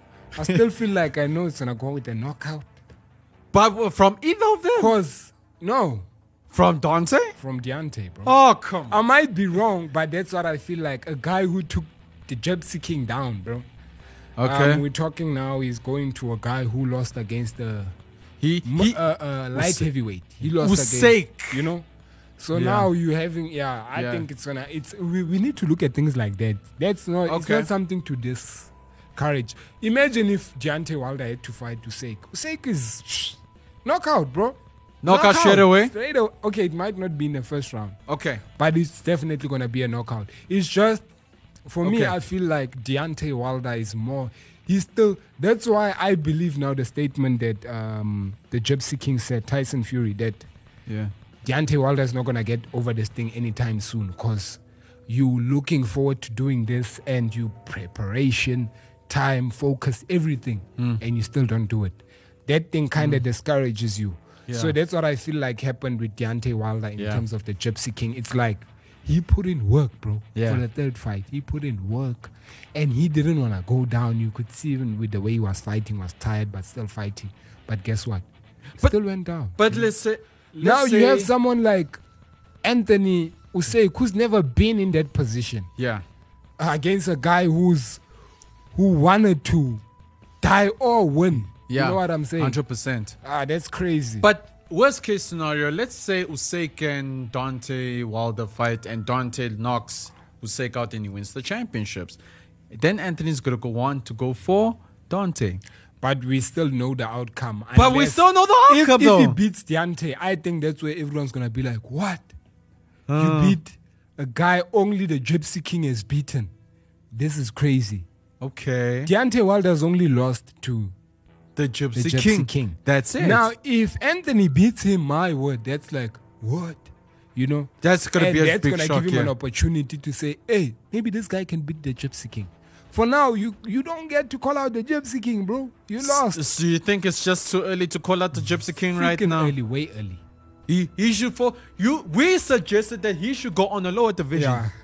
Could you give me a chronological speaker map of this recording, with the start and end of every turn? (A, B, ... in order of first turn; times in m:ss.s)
0:00.3-0:02.7 A
0:03.5-0:04.9 B
0:04.8-0:06.0 A
0:06.5-0:07.4 B
0:07.4-0:08.3 A
0:08.2-0:09.0 B
0:08.9-0:13.6 A
0:14.4-0:14.8 B
0:14.4-0:17.9 A
0:18.4-0:19.0 B
0:18.6-0:21.9 A
0:19.5-0:19.8 B
0:20.5-0:21.7 B
0:22.4-0:38.0 A
0:22.5-0:22.9 B
0:23.9-0:24.2 B
0:27.3-0:27.7 B
0:35.0-0:35.9 B
0:38.1-0:38.4 B
0:38.5-0:41.0 A
0:41.7-0:50.4 A
0:41.8-0:42.1 B
0:50.9-0:51.1 B
0:51.4-1:18.2 A
1:03.0-1:03.2 B
1:04.5-1:04.7 B
1:07.0-1:07.2 B
1:10.3-1:10.6 B
1:18.8-1:19.9 A
1:19.6-1:21.3 B
1:20.6-1:22.0 A
1:22.6-1:25.7 A
1:25.8-1:26.0 B
1:26.6-1:28.0 A
1:28.7-1:29.8 A
1:30.4-1:32.6 A
1:31.7-1:33.1 B
1:33.2-1:34.3 A
1:34.2-1:42.2 B
1:42.7-1:45.6 B
1:46.0-1:52.3 A
1:47.8-1:49.4 B
1:53.1-1:53.6 B
1:53.1-1:56.5 A
1:57.1-1:58.1 A
1:58.4-1:59.1 B
1:59.0-2:00.9 A
2:01.6-2:03.5 B
2:01.9-2:16.5 A
2:07.8-2:09.3 B
2:16.0-2:19.5 B
2:18.9-2:20.2 A
2:20.7-2:24.6 B
2:24.3-2:24.7 A